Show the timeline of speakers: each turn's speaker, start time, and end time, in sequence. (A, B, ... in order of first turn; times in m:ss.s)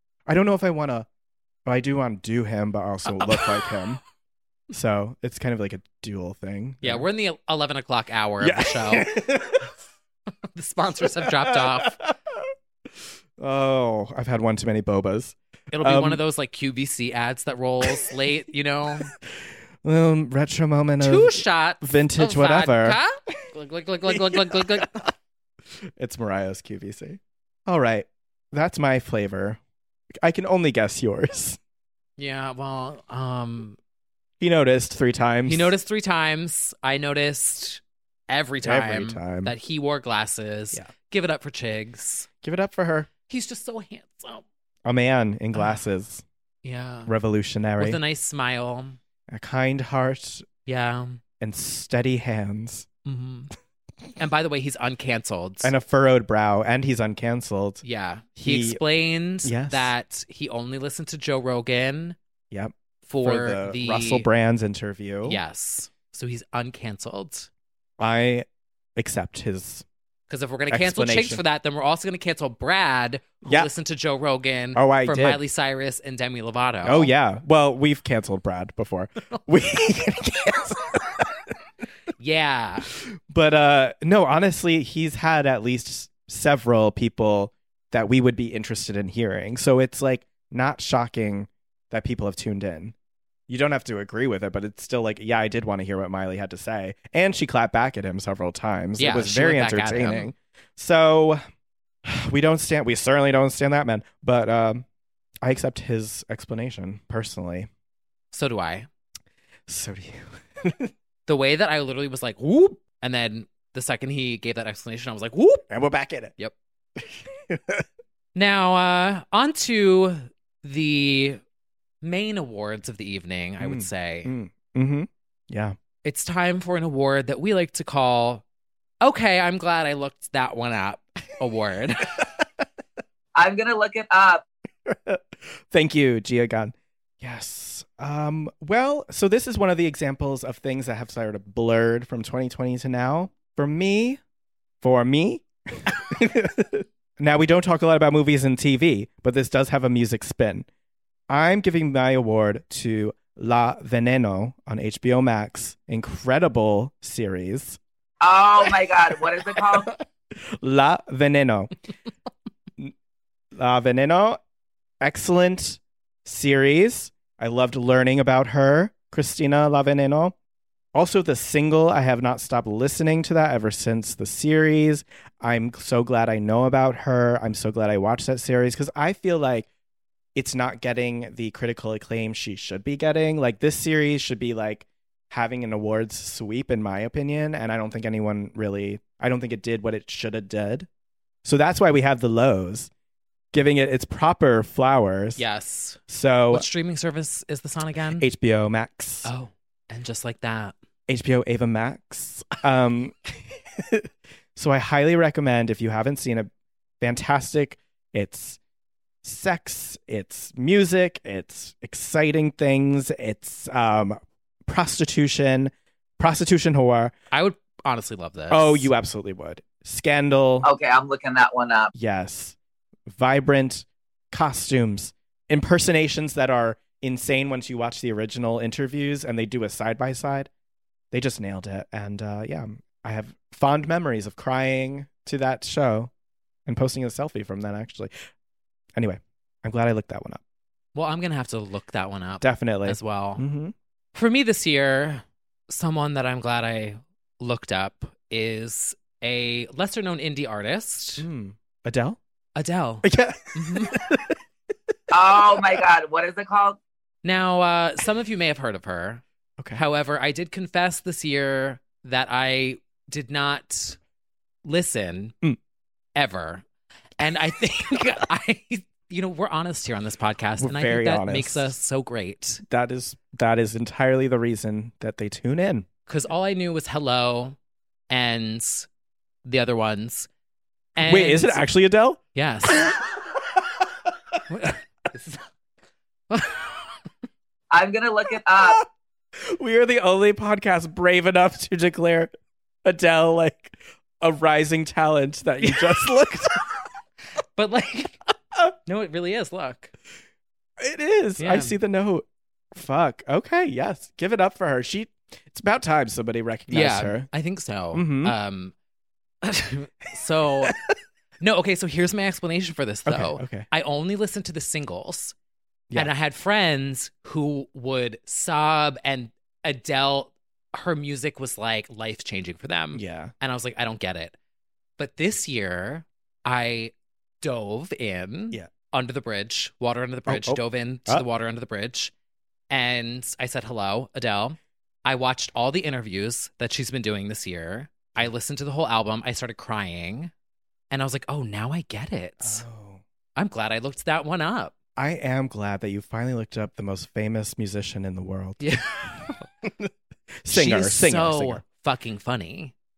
0:00.3-0:01.1 A
0:01.6-0:04.0 A
0:04.7-0:07.1 A
0:06.8-0:09.1 B
0:08.4-0:09.7 A
0:10.5-0:12.0 B
0:11.2-0:12.5 A
0:13.4-0:16.2 A
0:15.7-0:19.1 B
0:17.8-0:18.1 A
0:19.8-0:23.0 A
0:21.0-0:25.1 B
0:24.1-0:24.9 A
0:26.0-0:29.6 A
0:30.2-0:31.6 A
0:32.2-0:33.8 B
0:34.4-0:35.7 A
0:35.4-0:42.3 B
0:38.6-0:39.5 A
0:42.4-0:43.1 A
0:43.3-0:44.4 B
0:44.8-0:46.2 A
0:45.5-0:45.8 B
0:46.6-0:47.1 B
0:47.0-0:48.0 A
0:47.8-0:49.0 B
0:49.3-0:50.5 A
0:50.6-0:51.2 B
0:51.4-0:52.9 A
0:53.0-0:53.5 B
0:54.2-0:55.7 B
0:55.6-0:57.8 A
0:57.8-1:02.2 B
0:58.4-0:58.8 A
0:59.4-0:59.9 A
1:02.5-1:05.4 A
1:03.0-1:04.3 B
1:05.2-1:07.5 B
1:08.0-1:09.8 A
1:10.3-1:17.1 B
1:10.7-1:11.4 A
1:13.4-1:13.7 A
1:14.7-1:15.4 A
1:16.8-1:21.3 A
1:22.2-1:22.9 B
1:23.0-1:32.9 A
1:33.5-1:41.4 A
1:39.0-1:40.3 B
1:42.0-1:44.8 A
1:45.4-1:47.7 A
1:48.3-1:48.9 B
1:49.7-1:50.9 A
1:51.2-1:55.6 B
1:55.7-1:56.3 A
1:57.0-1:57.8 A
1:58.3-2:01.4 B
2:02.0-2:04.3 B
2:03.6-2:05.8 A
2:06.0-2:08.4 B
2:09.0-2:12.1 B
2:13.4-2:14.4 C
2:14.8-2:24.2 A
2:24.8-2:30.7 A
2:31.3-2:37.8 A
2:38.2-2:39.9 C
2:40.6-2:41.7 A
2:43.5-2:44.4 A
2:45.0-2:50.3 A
2:50.9-2:59.7 A
3:00.3-3:10.9 A
3:11.4-3:12.9 A
3:13.5-3:15.4 A
3:15.4-3:16.0 B
3:16.1-3:16.7 A
3:16.5-3:18.3 B
3:18.2-3:19.3 A
3:19.2-3:20.7 B
3:21.1-3:23.2 A
3:23.8-3:26.5 A
3:27.0-3:28.6 A
3:29.2-3:37.1 A
3:37.3-3:38.9 B
3:38.5-3:40.6 A
3:40.6-3:41.9 C
3:41.9-3:42.6 A
3:43.1-3:50.5 A
3:51.1-3:56.1 A
3:56.6-3:58.1 A
3:58.9-4:00.4 A
4:00.9-4:03.4 B
4:02.4-4:03.7 A
4:04.1-4:11.2 B
4:11.2-4:12.2 A
4:12.6-4:14.0 B
4:13.0-4:14.4 A
4:15.1-4:16.8 C
4:17.2-4:19.2 B
4:19.6-4:19.8 A
4:19.7-4:24.0 B
4:24.6-4:25.3 B
4:26.1-4:26.6 B
4:27.2-4:32.6 B
4:30.6-4:31.7 A
4:32.6-4:35.9 A
4:36.1-4:37.6 B
4:38.1-4:38.9 B
4:39.4-4:40.3 B
4:41.0-4:41.6 B
4:41.0-4:42.2 A
4:42.3-4:42.9 B
4:44.5-4:45.4 B
4:46.3-4:46.8 B
4:47.7-4:48.8 C
4:49.4-4:52.3 A
4:52.8-4:56.6 A
4:55.6-4:56.1 B
4:57.6-4:58.2 B
4:58.8-4:59.9 B
5:00.8-5:07.3 A
5:01.4-5:01.8 B
5:06.7-5:08.7 B
5:07.9-5:08.3 A
5:09.4-5:10.7 B
5:11.4-5:15.3 B
5:13.0-5:13.7 A
5:15.9-5:24.3 B
5:22.9-5:23.3 A
5:25.0-5:32.1 B
5:30.3-5:31.2 A
5:32.7-5:40.3 B
5:40.9-5:42.6 B
5:42.4-5:43.0 A
5:43.4-5:44.7 B
5:45.0-5:48.6 A
5:48.6-5:49.4 B
5:49.6-5:51.6 A
5:50.5-5:52.7 B